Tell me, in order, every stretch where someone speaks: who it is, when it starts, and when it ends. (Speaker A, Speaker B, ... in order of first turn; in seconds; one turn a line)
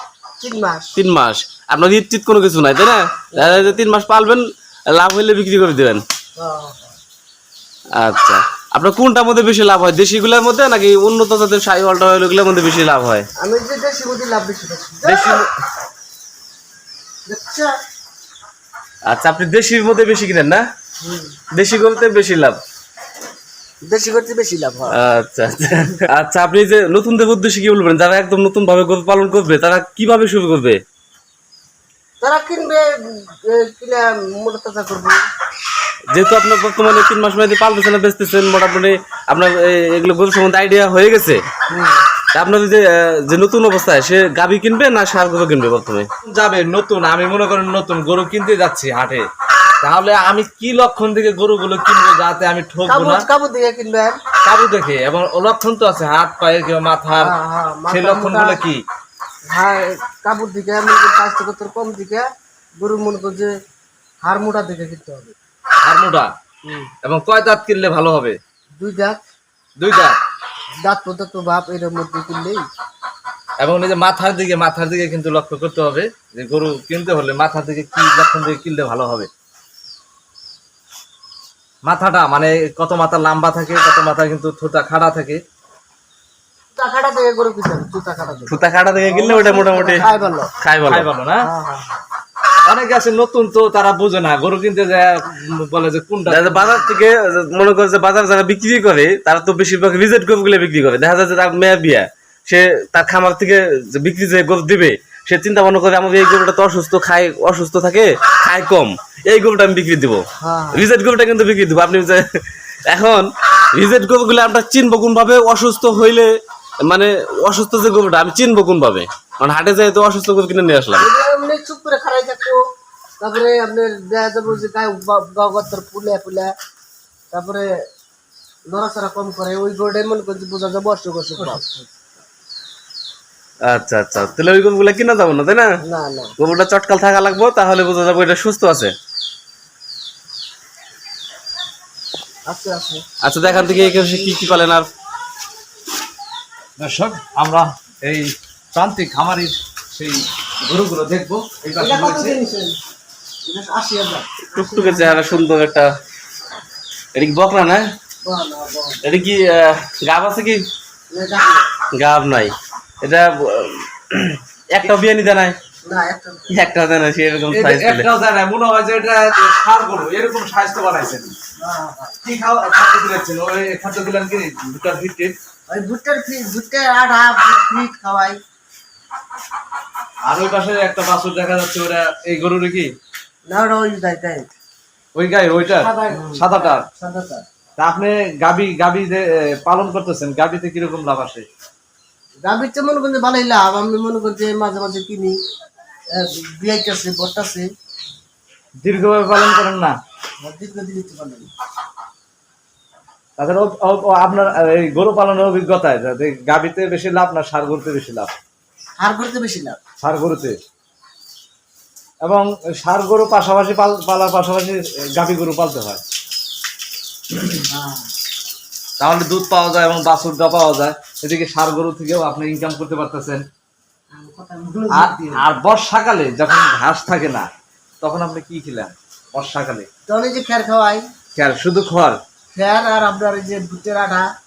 Speaker A: 0.4-0.9
Speaker B: 0.9-6.0
Speaker A: 3.3-3.8
Speaker A: 6.4-7.0
Speaker B: 8.0-13.3
Speaker A: 13.4-15.4
Speaker B: 15.0-15.5
Speaker A: 17.3-17.7
Speaker B: 19.1-20.6
Speaker A: 21.0-21.4
Speaker B: 21.5-22.6
Speaker A: 23.9-25.0
Speaker B: 24.9-30.8
Speaker A: 32.2-35.2
Speaker B: 36.1-41.4
Speaker A: 41.7-42.0
Speaker B: 42.3-46.1
Speaker C: 46.2-49.3
Speaker C: 49.8-53.2
Speaker A: 52.9-54.2
Speaker C: 54.4-57.3
Speaker A: 57.2-58.6
Speaker C: 57.9-58.8
Speaker A: 59.5-62.2
Speaker A: 62.8-63.5
Speaker A: 64.2-65.3
Speaker C: 65.8-66.3
Speaker A: 66.6-66.9
Speaker C: 67.0-68.4
Speaker A: 68.8-69.2
Speaker C: 69.8-70.2
Speaker A: 70.8-72.6
Speaker C: 73.6-79.3
Speaker C: 81.8-85.4
Speaker A: 86.8-90.5
Speaker B: 88.5-90.0
Speaker B: 90.6-91.1
Speaker C: 90.8-91.5
Speaker A: 91.4-92.0
Speaker C: 92.7-96.7
Speaker B: 96.2-112.2
Speaker A: 110.4-110.9
Speaker B: 112.9-116.3
Speaker B: 116.8-121.1
Speaker A: 121.0-122.6
Speaker A: 123.2-126.5
Speaker A: 127.3-127.6
Speaker A: 128.7-131.6
Speaker B: 133.7-135.7
Speaker A: 135.8-136.3
Speaker B: 136.4-138.9
Speaker A: 142.5-144.8
Speaker B: 143.2-144.9
Speaker C: 146.8-152.3
Speaker A: 151.8-152.8
Speaker A: 153.5-155.3
Speaker B: 154.5-155.9
Speaker B: 157.1-157.8
Speaker A: 158.2-159.0
Speaker B: 159.0-160.6
Speaker A: 161.1-161.6
Speaker B: 161.9-165.6
Speaker A: 165.8-166.6
Speaker B: 166.5-168.1
Speaker C: 167.5-171.3
Speaker A: 171.6-172.2
Speaker C: 172.2-175.4
Speaker A: 175.7-178.4
Speaker C: 180.3-182.9
Speaker A: 183.5-184.5
Speaker C: 185.2-186.8
Speaker A: 185.8-187.4
Speaker C: 187.8-191.4
Speaker A: 192.4-195.3
Speaker A: 196.2-197.7
Speaker C: 198.8-199.9
Speaker A: 200.4-201.5
Speaker C: 203.4-208.3
Speaker A: 209.0-209.8
Speaker C: 210.0-210.6
Speaker C: 212.2-216.0
Speaker A: 217.7-218.1
Speaker C: 219.0-223.4
Speaker A: 224.2-225.4
Speaker C: 224.9-227.5
Speaker C: 228.0-229.9
Speaker A: 230.1-231.0
Speaker C: 231.3-232.2
Speaker A: 232.5-234.2